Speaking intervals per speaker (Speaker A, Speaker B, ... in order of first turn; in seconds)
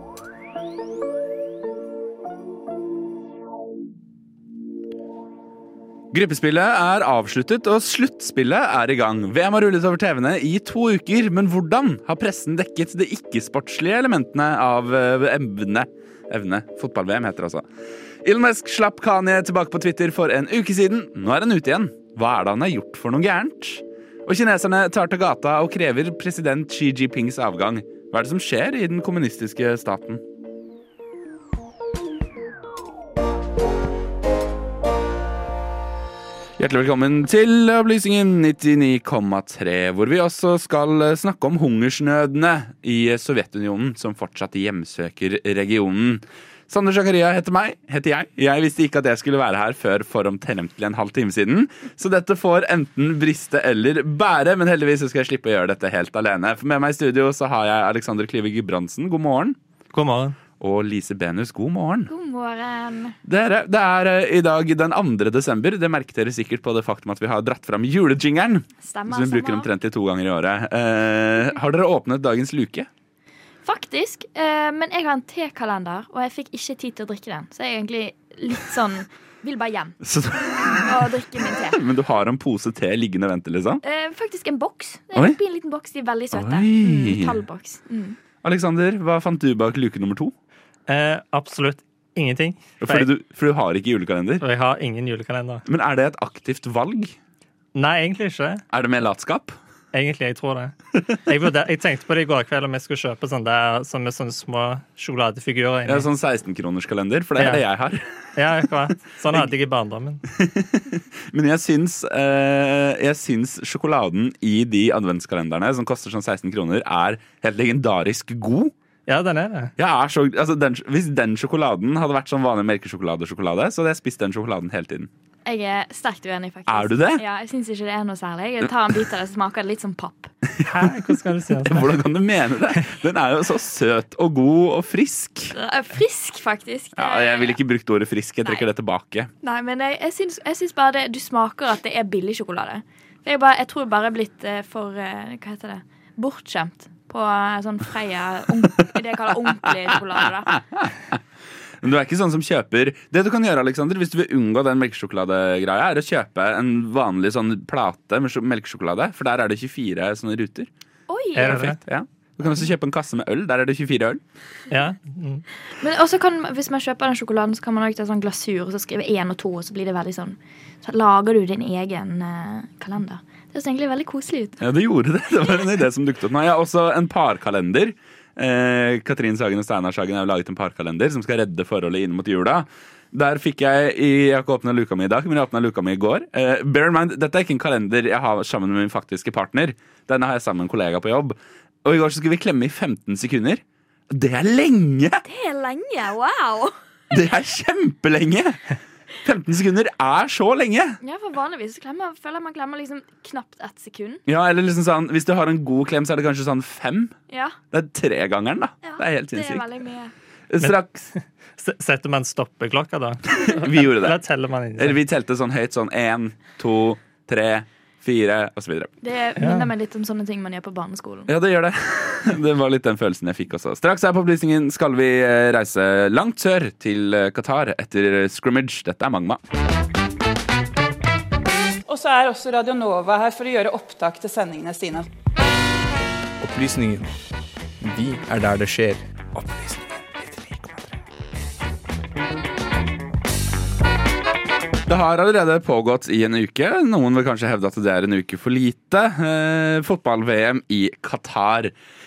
Speaker A: 6.1-17.6, 18.2-30.2, 36.6-59.6, 60.6-62.1, 63.3-72.9, 80.0-83.8, 86.3-87.4, 88.4-90.3, 92.8-94.4, 95.7-97.2, 98.7-99.6, 105.8-108.1, 110.3-118.7, 119.8-125.1, 126.7-127.2, 130.6-131.0, 131.6-135.5, 137.0-139.3, 150.7-151.2, 151.8-160.7, 161.5-164.2, 174.6-195.2, 197.1-201.0, 204.3-207.2, 207.7-209.7, 210.5-211.0, 213.3-214.2, 214.8-218.9, 221.3-229.4, 244.9-251.7
Speaker B: 59.9-60.4, 90.9-93.1, 94.4-95.7, 97.8-98.6, 99.9-106.1, 107.4-107.6, 108.3-110.2, 119.1-119.7, 130.7-131.9, 161.3-161.8, 164.7-165.4, 210.6-215.0, 219.4-219.7
Speaker C: 62.1-63.1, 68.8-69.7, 73.7-80.0, 80.8-81.8, 83.8-88.2, 125.5-130.3, 135.5-137.6, 139.4-150.6, 161.1-161.7, 165.7-174.6, 195.2-196.8, 201.0-204.2, 207.3-207.6, 208.8-210.1, 219.0-221.3
Speaker D: 231.9-235.1
Speaker E: 236.4-237.1, 237.8-240.9